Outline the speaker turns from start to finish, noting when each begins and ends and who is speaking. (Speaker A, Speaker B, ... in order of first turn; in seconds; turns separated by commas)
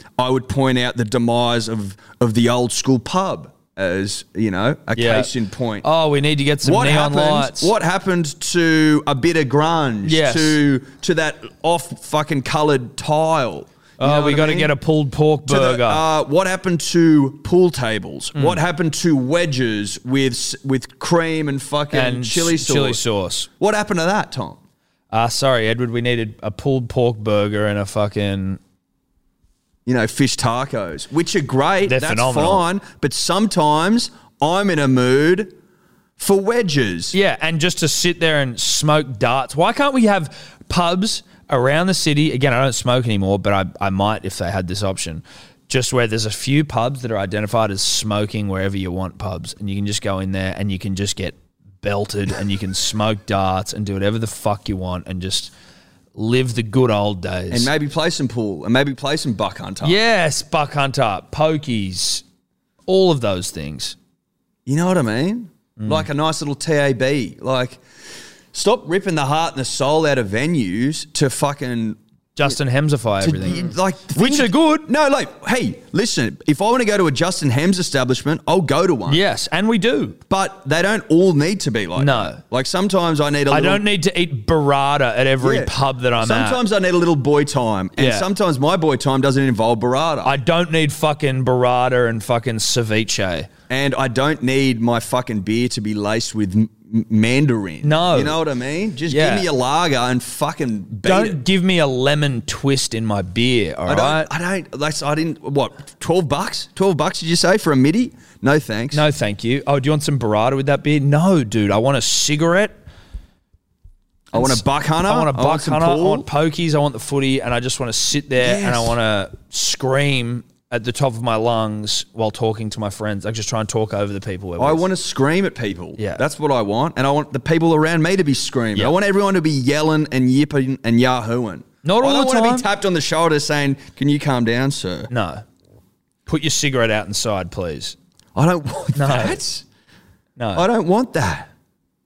Speaker A: 0.2-5.9, Speaker B: 5.0-5.3, Speaker B: 5.8-7.7, Speaker A: 6.6-14.7, Speaker B: 10.1-10.6, Speaker B: 14.0-16.0, Speaker A: 15.5-23.0, Speaker B: 18.4-18.6, Speaker B: 21.9-23.5, Speaker A: 23.6-24.6, Speaker B: 25.1-28.6, Speaker A: 29.9-35.5, Speaker B: 31.8-32.6, Speaker A: 36.2-37.2, Speaker B: 37.1-55.5, Speaker B: 56.1-57.7, Speaker A: 57.5-60.0, Speaker B: 59.8-62.2, Speaker B: 62.9-64.0, Speaker A: 64.7-67.8, Speaker B: 65.8-66.1, Speaker A: 68.5-72.0, Speaker B: 72.4-74.9, Speaker A: 73.2-79.2, Speaker B: 79.1-80.2, Speaker A: 80.3-83.8, Speaker B: 82.0-82.4, Speaker B: 83.5-86.6, Speaker A: 85.4-90.3, Speaker B: 88.0-88.3, Speaker B: 90.2-93.5, Speaker A: 93.7-101.4, Speaker B: 97.8-98.4, Speaker B: 99.1-99.5, Speaker B: 101.0-104.3, Speaker A: 103.9-109.0, Speaker B: 108.9-112.8, Speaker A: 114.3-116.3, Speaker B: 114.3-124.8, Speaker A: 118.4-119.0, Speaker A: 124.6-135.1, Speaker B: 126.0-126.2, Speaker B: 131.8-132.7, Speaker B: 135.1-135.4, Speaker B: 136.3-138.0, Speaker A: 138.3-139.7, Speaker B: 138.9-139.4, Speaker B: 140.4-140.7, Speaker A: 140.6-141.5